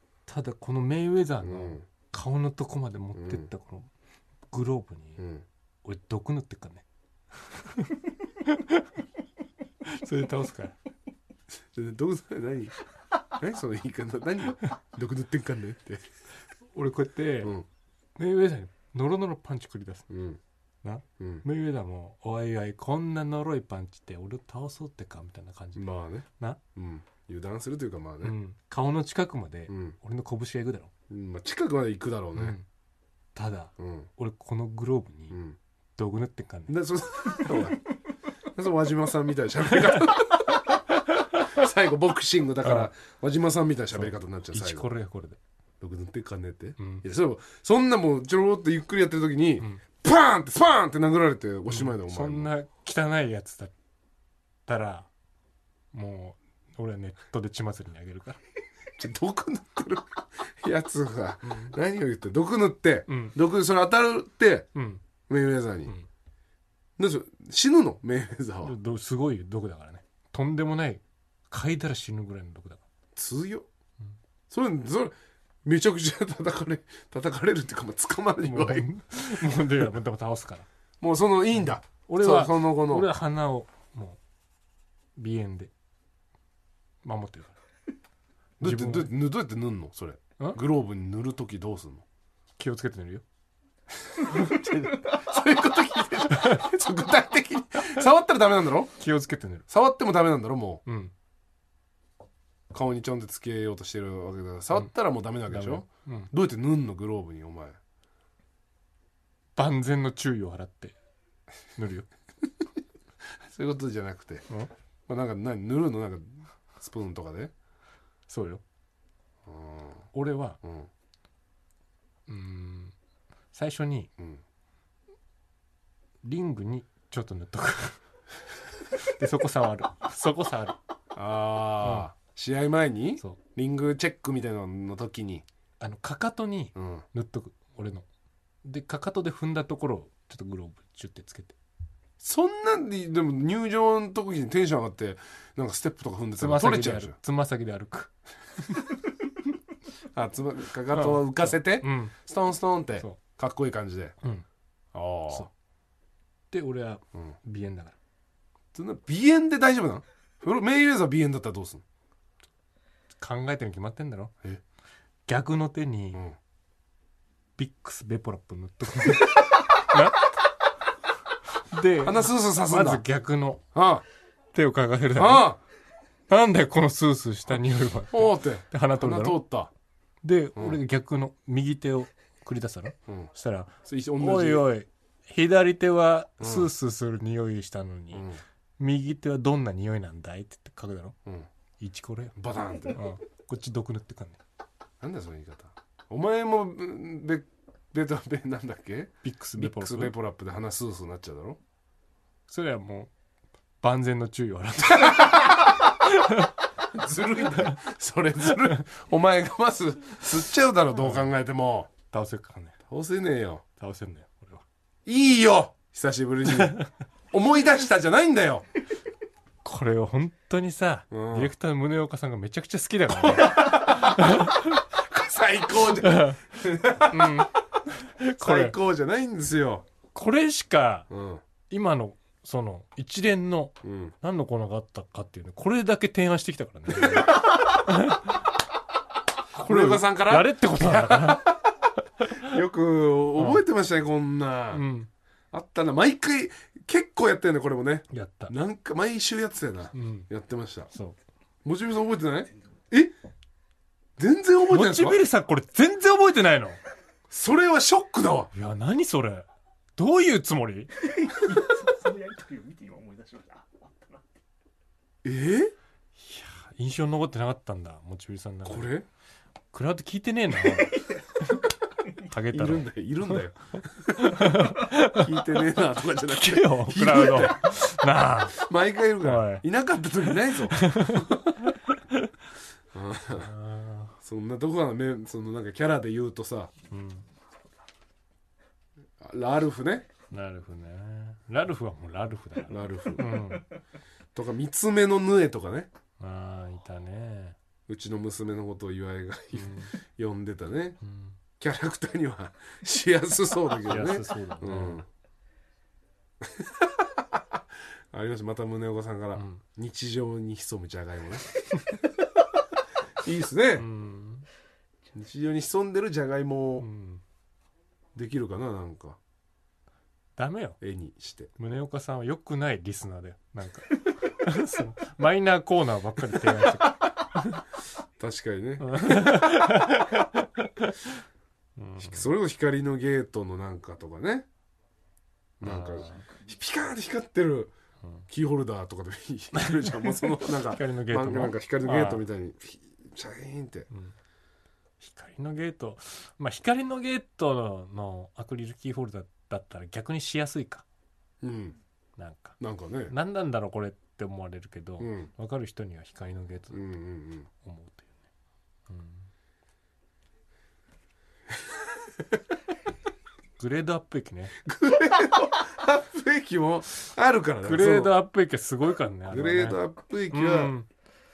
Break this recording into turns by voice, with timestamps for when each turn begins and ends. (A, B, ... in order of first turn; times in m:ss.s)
0:00.3-0:03.9 A
0:01.4-0:01.8 B
0:03.1-0:03.5 B
0:04.5-0:05.2 A
0:05.2-0:05.4 B
0:05.8-0:06.8 A
0:07.4-0:08.9 A
0:09.8-0:10.8 A
0:11.7-0:12.7 B
0:13.3-0:16.0 B
0:16.7-0:17.5 A
0:18.2-0:20.1 A
0:20.1-0:20.4 B
0:20.8-0:26.6 A
0:21.2-0:21.4 B
0:25.8-0:28.4 B
0:28.2-0:30.9 A
0:29.7-0:30.0 B
0:31.1-0:32.6 B
0:32.3-0:32.6 A
0:33.3-0:35.4 A
0:33.8-0:34.1 B
0:35.3-0:35.6 B
0:36.0-0:36.7 A
0:36.7-0:37.8 B
0:38.5-0:40.8 B
0:40.9-0:41.5 A
0:41.3-0:44.9 B
0:42.6-0:42.9 A
0:43.9-0:45.4 A
0:45.8-0:52.5 B
0:46.8-0:47.0 A
0:51.7-0:53.7 A
0:54.7-0:55.1 A
0:55.9-0:58.4 A
0:59.0-1:04.7 B
1:01.4-1:01.7 A
1:03.1-1:03.3 A
1:04.7-1:05.0 A
1:05.3-1:05.9 B
1:07.0-1:08.7 B
1:08.6-1:12.8 A
1:13.1-1:13.7 B
1:14.5-1:19.7 B
1:18.4-1:20.7 A
1:21.0-1:23.1 B
1:22.1-1:24.2 A
1:25.2-1:25.7 A
1:27.0-1:27.6 A
1:28.6-1:32.0 B
1:28.6-1:29.1 A
1:32.6-1:33.2 A
1:34.1-1:38.9 B
1:36.3-1:36.6 A
1:39.0-1:39.6 A
1:39.7-1:40.8 B
1:40.8-1:41.1 A
1:42.7-1:47.8 B
1:45.5-1:46.3 A
1:49.6-1:50.9 A
1:51.8-1:52.1 A
1:53.4-1:54.4 B
1:55.1-1:57.5 B
1:58.3-1:58.6 A
1:59.4-2:00.1 B
2:00.1-2:00.6 A
2:00.6-2:00.9 B
2:02.3-2:02.9 A
2:03.5-2:04.1 A
2:06.2-2:08.0 A
2:08.9-2:10.8 A
2:11.1-2:15.4 B
2:11.8-2:12.1 A
2:15.8-2:18.0 A
2:16.8-2:17.0 B
2:18.6-2:21.6 A
2:22.2-2:27.2 B
2:26.4-2:28.9 A
2:30.1-2:34.2 B
2:30.9-2:32.1 A
2:34.9-2:35.5 B
2:36.5-2:38.0 A
2:38.7-2:41.8 B
2:43.2-2:44.3 A
2:45.3-2:46.2 A
2:47.6-2:50.3 A
2:51.7-2:53.6 A
2:52.0-2:53.0 B
2:53.7-2:54.0 B
2:54.5-2:55.5 A
2:55.2-2:55.6 B
2:56.3-2:59.4 A
2:58.1-2:59.7 B
3:00.2-3:11.2 A
3:03.8-3:04.6 B
3:06.4-3:06.7 B
3:08.1-3:08.4 B
3:11.8-3:12.4 A
3:12.4-3:13.1 B
3:12.9-3:14.4 A
3:15.0-3:21.6 B
3:19.2-3:20.1 A
3:22.5-3:23.1 A
3:23.8-3:26.5 A
3:24.8-3:25.9 B
3:26.8-3:31.9 B
3:27.5-3:27.8 A
3:31.0-3:31.3 A
3:32.1-3:32.8 A
3:32.8-3:33.6 B
3:33.8-3:34.6 A
3:35.0-3:36.8 B
3:36.5-3:36.9 A
3:37.3-3:38.6 B
3:39.6-3:44.8 A
3:41.1-3:41.5 B
3:43.2-3:47.5 B
3:46.0-3:48.7 A
3:48.4-3:49.8 B
3:50.1-3:51.1 A
3:51.1-3:51.4 B
3:51.7-3:58.4 A
3:53.8-3:54.1 B
3:56.9-3:57.6 B
3:59.5-4:01.5 A
3:59.6-4:01.7 B
4:02.2-4:02.5 A
4:02.3-4:04.8 B
4:03.4-4:03.6 A
4:04.7-4:05.1 A
4:05.5-4:10.9 B
4:08.1-4:08.5 A
4:09.9-4:10.3 A
4:10.9-4:11.2 A
4:11.6-4:13.1 B
4:14.2-4:15.2 B
4:14.7-4:16.8 A
4:17.3-4:18.5 B
4:18.5-4:20.9 A
4:21.0-4:24.2 C
4:25.2-4:25.7 B
4:26.2-4:28.9 A
4:28.6-4:29.0 B
4:29.7-4:31.6 A
4:32.2-4:33.4 A
4:32.5-4:37.8 B
4:34.1-4:35.6 A
4:36.2-4:38.6 A
4:38.5-4:41.6 B
4:39.2-4:39.6 A
4:40.6-4:42.3 A
4:42.9-4:43.5 B
4:43.4-4:44.2 A
4:44.2-4:46.7 B
4:46.9-4:47.2 A
4:49.2-4:50.1 B
4:50.3-4:53.7 A
4:52.7-4:53.4 B
4:54.3-4:55.9 B
4:56.2-4:57.6 A
4:57.9-5:01.0 B
4:59.5-4:59.9 A
5:01.0-5:01.4 A
5:01.6-5:05.0 B
5:03.8-5:05.0 A
5:06.4-5:12.6 B
5:09.3-5:09.6 A
5:13.2-5:13.9 B
5:13.8-5:14.5 A
5:15.1-5:16.9 B
5:16.8-5:17.2 A
5:18.1-5:19.2 B
5:20.4-5:20.8 A
5:20.8-5:21.5 B
5:21.6-5:27.6 A
5:28.2-5:30.0 B
5:28.8-5:31.2 A
5:31.8-5:32.3 A
5:32.0-5:34.5 B
5:35.6-5:37.7 B
5:35.6-5:36.2 A
5:38.3-5:43.9 B
5:39.5-5:42.2 A
5:45.0-5:50.8 A
5:51.4-5:51.8 B
5:52.2-5:56.8 A
5:52.6-5:53.1 B
5:55.0-5:55.3 B
5:56.7-5:57.5 B
5:57.6-5:58.1 A
5:58.9-5:59.3 A
6:03.6-6:04.6 A
6:04.6-6:08.2 B
6:07.6-6:10.9 A
6:09.3-6:10.7 B